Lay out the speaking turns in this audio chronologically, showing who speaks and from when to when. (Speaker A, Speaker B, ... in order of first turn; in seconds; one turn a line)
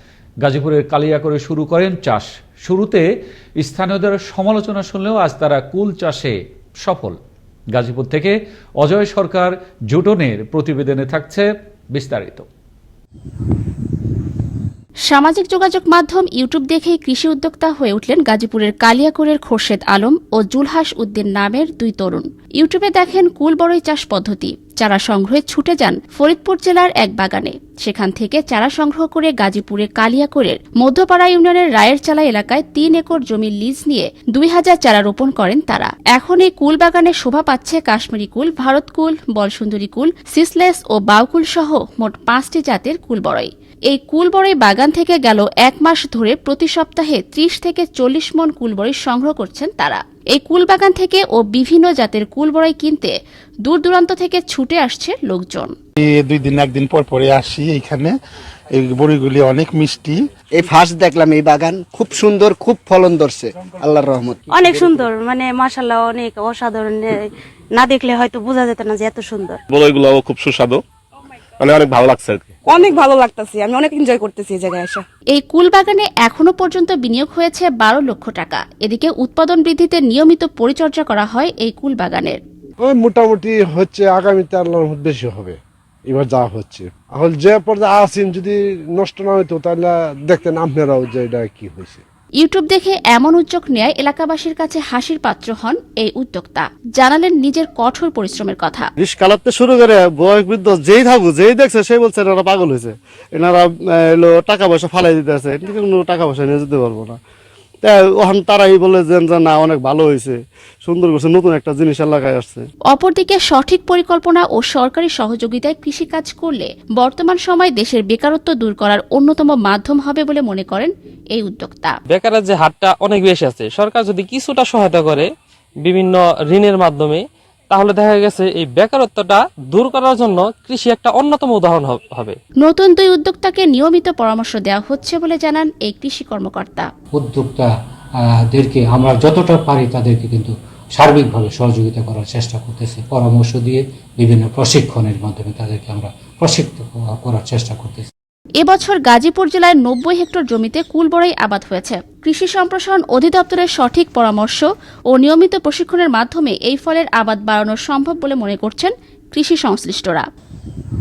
Speaker A: 0.4-3.0
Speaker A: 3.6-7.2
Speaker A: 7.7-12.5
Speaker B: 15.1-55.7
Speaker C: 56.0-58.1
Speaker C: 58.7-60.2
Speaker D: 60.5-65.0
Speaker E: 64.5-67.1
Speaker E: 67.8-69.6
Speaker F: 69.7-70.8
Speaker F: 71.6-72.5
Speaker G: 72.6-75.0
Speaker B: 75.3-82.4
Speaker H: 82.8-85.5
Speaker H: 86.1-92.0
Speaker B: 92.4-98.9
Speaker I: 99.0-107.2
Speaker I: 107.8-112.7
Speaker B: 112.9-122.0
Speaker J: 122.1-125.3
Speaker J: 125.8-132.4
Speaker B: 132.6-136.9
Speaker K: 137.1-137.7
Speaker K: 138.5-148.1
Speaker B: 148.6-160.2